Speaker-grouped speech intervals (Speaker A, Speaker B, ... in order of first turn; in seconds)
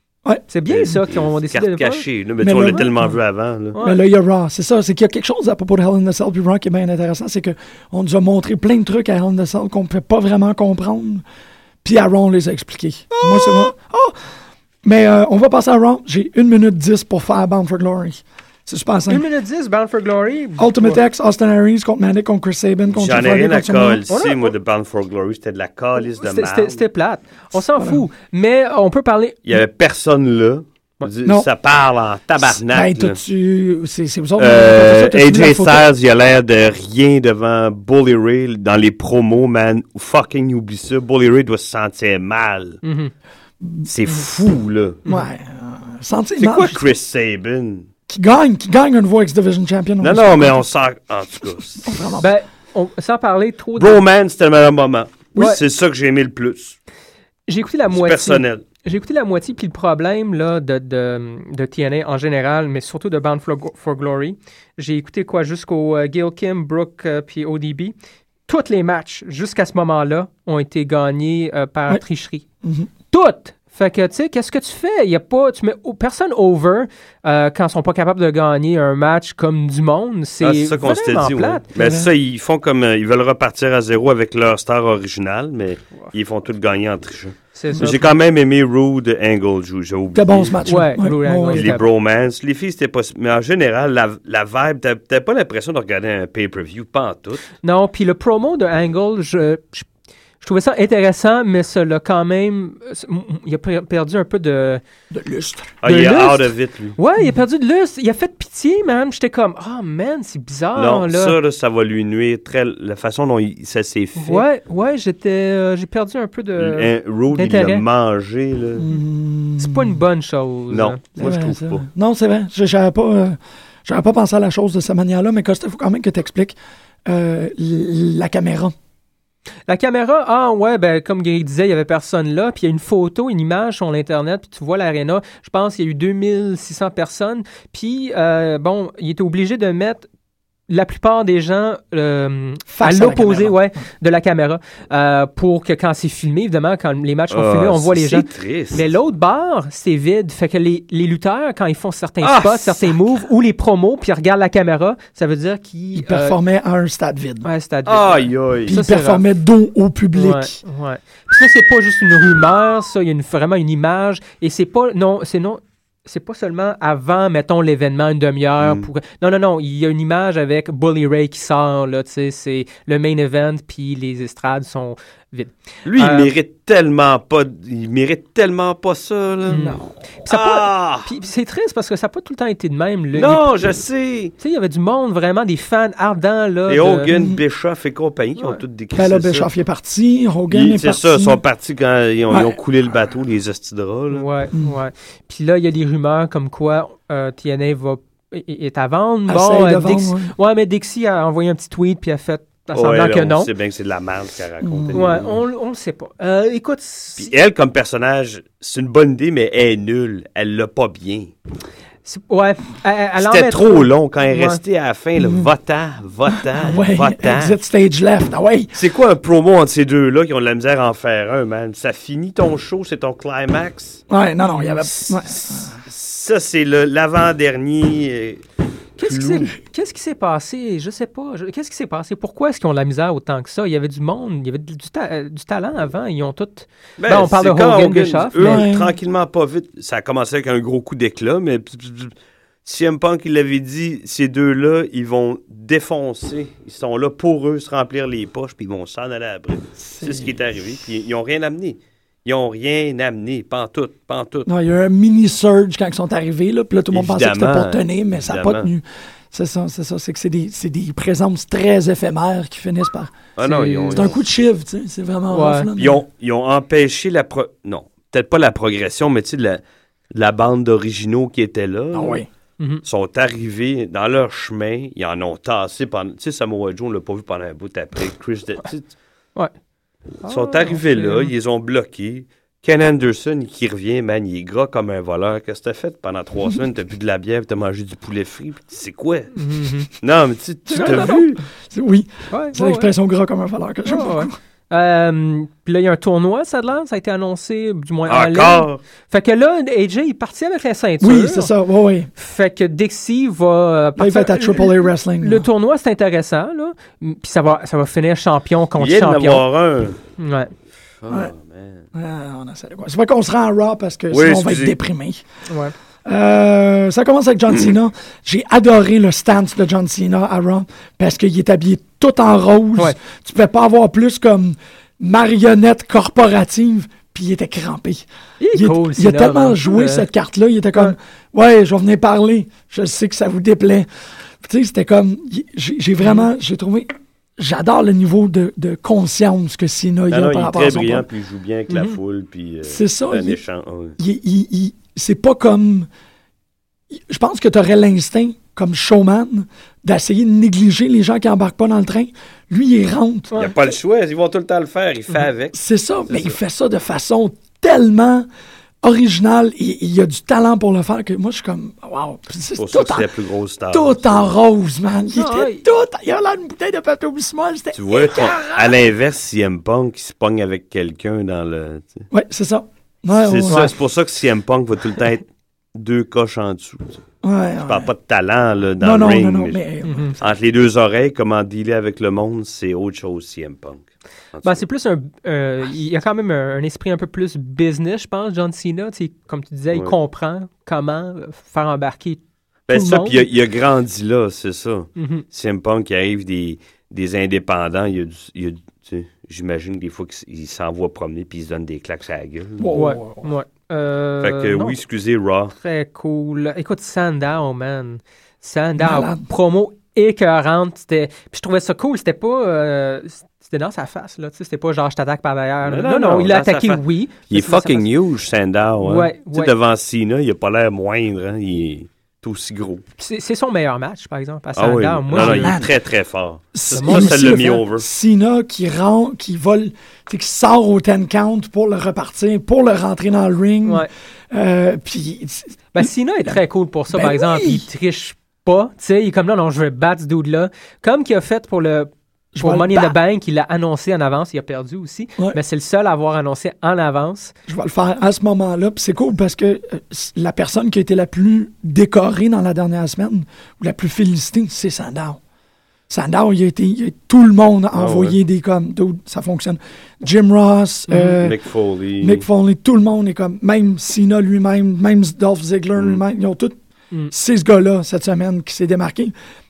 Speaker A: 0.2-0.9, 2.4-3.1, 3.8-11.2, 11.8-14.3, 14.8-19.2, 20.6-24.0, 27.7-28.0, 32.4-35.9, 43.6-43.9, 45.0-46.8, 48.1-50.7, 51.8-52.3, 72.6-72.9, 81.7-82.1, 90.1-91.8, 105.1-105.7, 118.8-120.0, 121.2-128.7, 142.7-143.8, 155.9-157.5, 158.7-160.6, 179.6-179.9, 187.1-187.4, 188.9-191.4, 192.3-192.6, 199.3-200.3, 204.6-205.2, 215.2-215.5, 216.5-218.7, 224.1-225.8, 238.4-238.9, 249.8-250.3, 254.5-263.2, 263.9-266.0, 271.9-272.3, 290.7-294.3, 301.0-302.1, 304.0-305.5, 311.1-311.3, 311.9-315.2, 316.0-333.9, 334.4-341.1, 342.6-343.4, 344.0-345.9, 346.9-353.4, 355.5-358.3, 358.8-363.1, 363.7-368.8, 372.1-373.7, 377.2-377.9, 378.8-380.1, 402.6-403.3, 408.8-409.2, 425.1-425.7, 426.5-436.4, 436.9-437.6, 442.3-443.0, 447.5-455.2, 455.9-461.4, 462.0-466.6, 467.1-469.1
Speaker B: 0.5-2.0, 3.7-4.0, 13.1-13.7, 19.1-21.0, 24.1-24.5, 26.0-29.6, 42.8-43.1, 52.2-54.0, 57.5-67.9, 68.5-72.4, 73.1-81.6, 87.5-88.1, 90.7-91.8, 97.6-99.9, 100.4-104.8, 105.8-111.4, 114.2-117.8, 119.6-121.3, 129.7-140.1, 140.7-156.3, 157.4-159.2, 160.1-176.3, 179.5-183.5, 184.4-187.1, 194.1-203.5, 204.9-207.3, 212.0-214.6, 224.4-224.9, 229.0-238.6, 263.4-264.1, 265.3-265.7, 280.2-281.3, 289.4-289.9, 290.7-291.1, 292.3-292.9, 293.9-301.5, 302.1-309.4, 310.2-310.5, 315.5-315.7, 328.4-330.1, 341.7-342.0, 365.1-365.6, 373.5-373.7, 379.8-380.1, 384.4-393.3, 395.0-395.2, 402.7-404.8, 405.6-417.9, 418.8-419.5, 423.0-425.6, 426.7-427.5, 433.6-433.9, 435.7-447.3, 460.9-461.2
Speaker C: 0.7-3.8, 22.9-26.8, 29.4-33.2, 34.4-42.8, 43.9-45.0, 46.4-47.9, 50.0-52.0, 53.8-56.8, 57.9-58.6, 80.4-90.6, 91.5-97.5, 105.8-107.0, 110.8-114.5, 116.6-118.8, 120.7-121.8, 147.3-148.9, 152.2-153.0, 157.8-158.8, 168.6-168.9, 175.8-179.7, 180.2-181.1, 183.1-184.3, 186.7-189.5, 190.5-194.3, 202.7-205.4, 207.2-211.3, 213.2-217.6, 218.7-224.0, 225.1-228.4, 229.0-229.5, 237.0-242.1, 242.6-254.5, 256.9-258.7, 263.4-264.2, 265.8-272.2, 272.8-278.9, 280.3-289.4, 290.0-291.4, 298.1-298.8, 308.8-310.0, 311.0-311.8, 314.1-314.8, 340.1-344.0, 353.4-355.6, 356.1-356.4, 362.6-364.3, 367.7-372.1, 373.2-377.0, 377.6-379.6, 380.2-384.6, 392.7-402.7, 404.2-405.5, 415.6-422.8, 424.6-427.9, 457.7-458.1, 461.2-462.2, 465.8-466.0